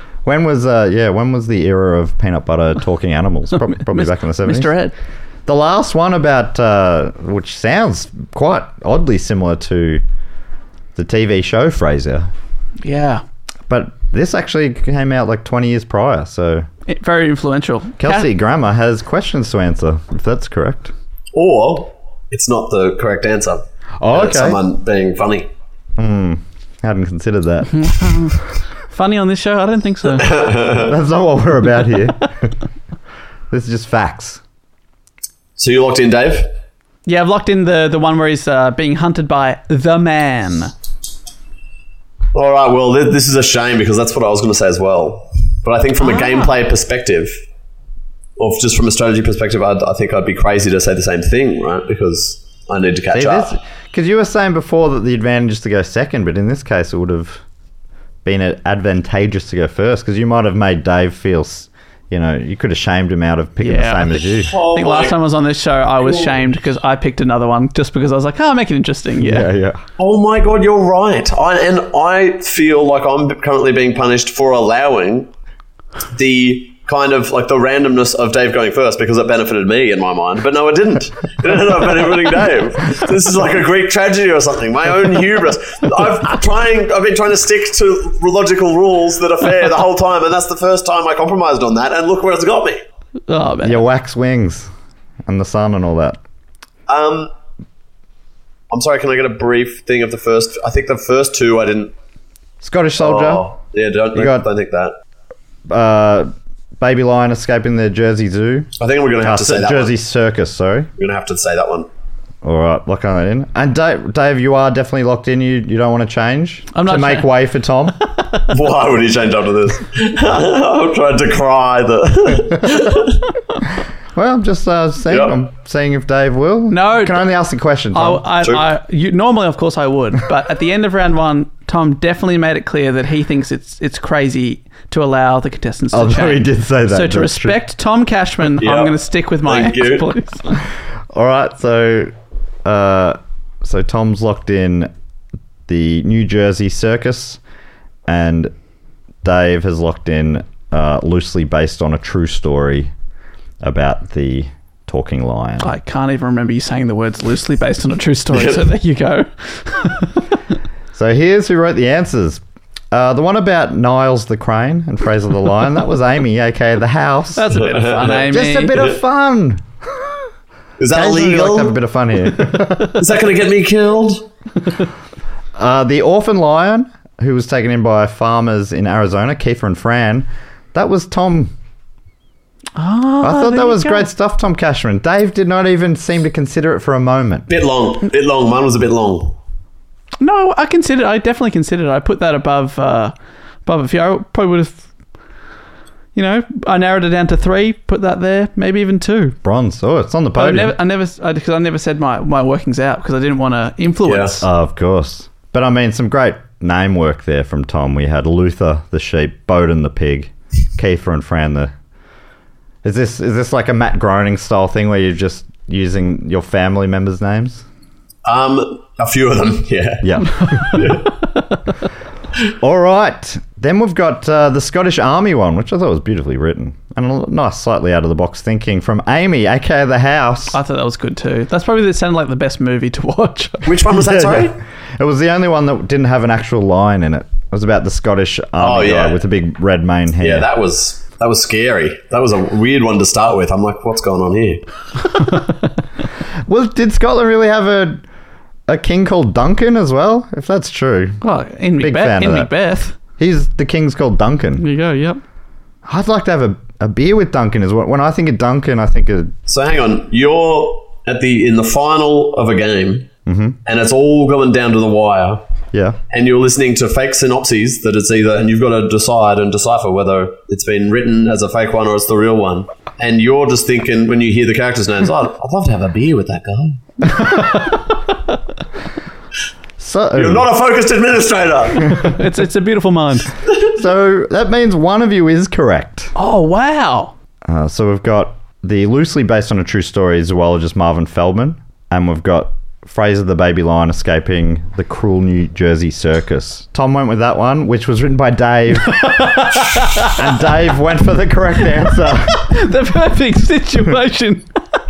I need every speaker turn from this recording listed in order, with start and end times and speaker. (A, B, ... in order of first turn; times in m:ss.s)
0:00.2-0:04.7 A
0:03.9-0:04.9 B
0:05.4-0:10.0 A
0:11.0-0:12.3 A
0:12.8-0:13.2 B
0:13.7-0:16.7 A
0:16.9-0:18.3 B
0:18.0-0:20.9 A
0:21.3-0:25.5 C
0:24.0-0:24.6 A
0:26.0-0:28.2 A
0:27.7-0:30.3 B
0:30.2-0:30.9 C
0:30.8-0:32.5 A
0:33.5-0:34.4 A
0:35.6-0:36.5 C
0:37.0-0:40.7 B
0:42.3-0:47.3 C
0:46.0-0:46.5 B
0:48.4-0:53.6 C
0:53.1-0:57.4 A
0:58.2-1:04.5 A
1:03.6-1:09.5 B
1:04.4-1:05.2 C
1:06.0-1:06.4 C
1:09.2-1:09.8 A
1:10.0-1:15.3 C
1:16.1-1:32.8 C
1:33.3-1:33.8 B
1:33.6-1:34.7 A
1:35.2-1:36.2 A
1:36.9-1:37.3 C
1:38.7-1:41.9 C
1:42.6-1:43.5 A
1:43.0-1:44.9 C
1:44.1-1:44.5 A
1:45.7-1:50.9 A
1:48.8-1:49.9 C
1:51.0-1:51.9 C
1:52.4-1:58.0 A
1:56.7-1:57.3 B
1:58.5-2:03.2 C
2:04.1-2:08.2 A
2:05.1-2:05.4 C
2:06.7-2:07.2 B
2:07.9-2:20.6 B
2:08.4-2:08.7 C
2:15.9-2:17.6 A
2:18.6-2:20.1 C
2:21.1-2:22.1 A
2:22.6-2:24.9 A
2:25.7-2:27.4 A
2:28.1-2:28.5 A
2:29.2-2:32.9 A
2:33.6-2:35.7 A
2:35.6-2:40.2 B
2:38.3-2:38.7 C
2:40.9-2:47.5 A
2:47.3-2:48.8 B
2:47.5-2:48.3 C
2:48.0-2:49.6 A
2:50.8-2:51.8 C
2:50.9-2:53.0 A
2:52.9-2:54.3 C
2:55.6-3:01.5 A
3:02.8-3:04.1 B
3:03.2-3:07.5 A
3:07.5-3:09.3 C
3:10.2-3:13.1 B
3:13.6-3:14.8 B
3:16.1-3:19.4 B
3:19.4-3:20.7 A
3:20.4-3:24.5 B
3:24.0-3:24.4 C
3:24.4-3:31.7 A
3:32.8-3:37.6 A
3:38.2-3:41.1 C
3:40.0-3:40.9 A
3:42.6-3:50.6 A
3:50.5-3:53.7 B
3:53.6-3:54.6 C
3:54.0-4:00.5 A
3:58.6-3:59.2 C
4:00.2-4:04.6 C
4:06.4-4:08.0 A
4:08.7-4:11.2 A
4:11.2-4:13.0 B
4:11.8-4:12.5 A
4:13.2-4:14.6 A
4:14.6-4:15.2 B
4:15.8-4:19.3 A
4:19.5-4:23.1 C
4:23.2-4:23.6 A
4:23.6-4:25.4 C
4:25.7-4:26.0 A
4:26.1-4:36.8 C
4:37.2-4:37.7 B
4:39.8-4:40.5 A
4:40.1-4:42.1 C
4:41.9-4:43.3 B
4:43.7-4:46.1 A
4:46.2-4:47.1 B
4:47.4-5:02.5 A
4:58.9-5:00.1 B
5:02.3-5:04.5 B